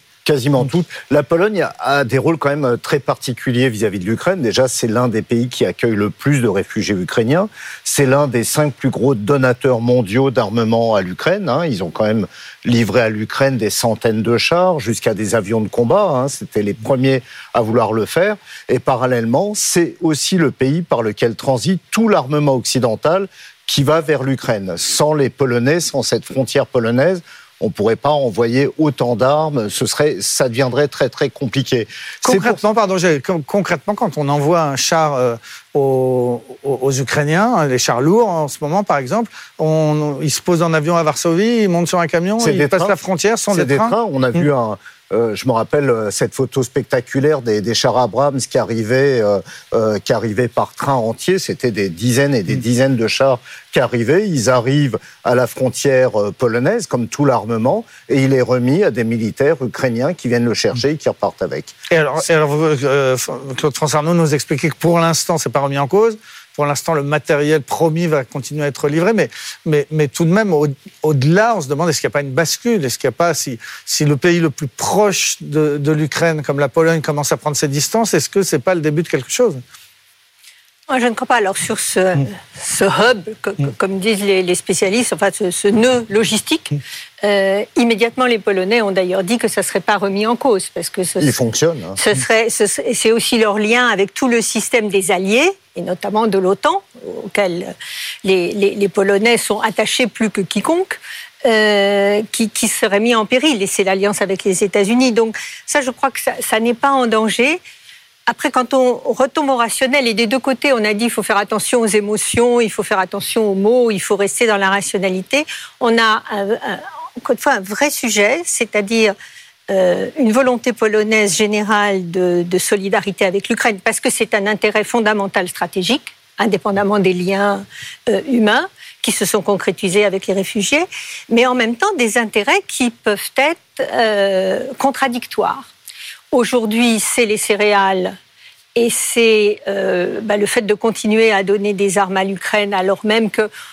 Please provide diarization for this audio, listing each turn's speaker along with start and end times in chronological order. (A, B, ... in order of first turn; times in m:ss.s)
0:00.2-0:32.6 A
0:32.2-0:44.4 B
0:42.4-0:43.0 A
0:43.5-1:01.7 A
1:01.9-1:19.6 B
1:20.9-1:31.3 C
1:31.2-1:32.0 A
1:32.0-1:47.6 C
1:48.3-1:59.1 C
1:59.7-2:15.6 C
2:16.3-2:18.2 C
2:18.8-2:23.5 C